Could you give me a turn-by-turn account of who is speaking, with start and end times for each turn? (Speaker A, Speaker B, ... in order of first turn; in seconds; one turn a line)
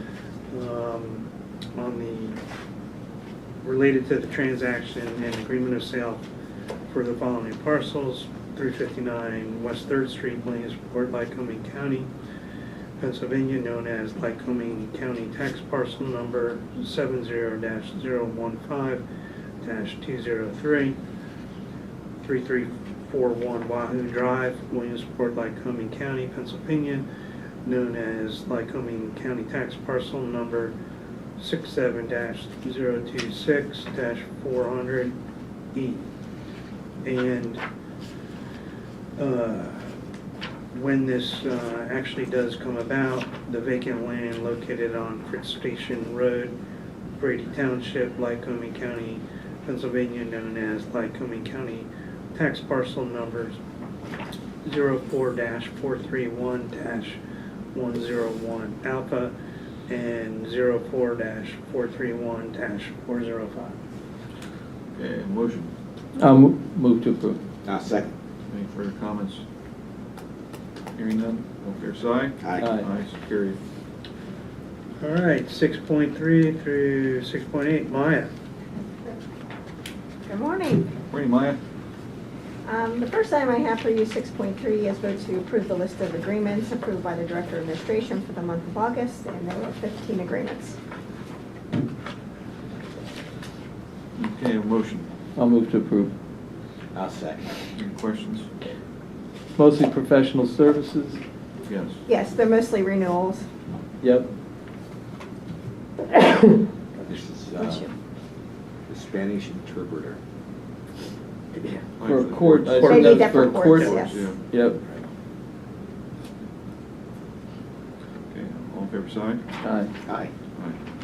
Speaker A: 0.5-2.4
Speaker A: 3.6-6.2
Speaker A: 6.9-12.1
Speaker A: 13.0-19.0
Speaker A: 19.6-21.0
Speaker A: 22.2-27.1
Speaker A: 27.6-30.8
Speaker A: 31.4-35.1
Speaker A: 35.7-36.1
Speaker A: 37.0-37.6
Speaker A: 39.2-40.0
Speaker A: 40.7-46.5
Speaker A: 47.2-53.6
Speaker A: 54.6-57.2
Speaker A: 57.7-59.3
Speaker A: 59.9-63.8
Speaker B: 65.0-65.7
Speaker C: 66.2-67.4
Speaker D: 67.6-68.1
Speaker B: 68.5-69.4
Speaker B: 70.9-73.6
Speaker C: 72.6-72.9
Speaker A: 75.0-78.3
Speaker E: 80.2-80.9
Speaker B: 81.1-81.6
Speaker E: 82.7-90.8
Speaker B: 94.2-95.1
Speaker C: 95.3-96.1
Speaker D: 96.9-97.6
Speaker B: 97.7-98.5
Speaker C: 99.5-101.2
Speaker B: 101.7-102.0
Speaker E: 102.1-103.5
Speaker C: 104.0-104.3
Speaker D: 107.0-107.8
Speaker E: 107.6-107.9
Speaker D: 108.9-110.2
Speaker C: 111.6-114.8
Speaker B: 112.0-114.4
Speaker E: 112.8-114.3
Speaker B: 118.3-119.4
Speaker C: 119.6-119.9
Speaker D: 120.0-120.3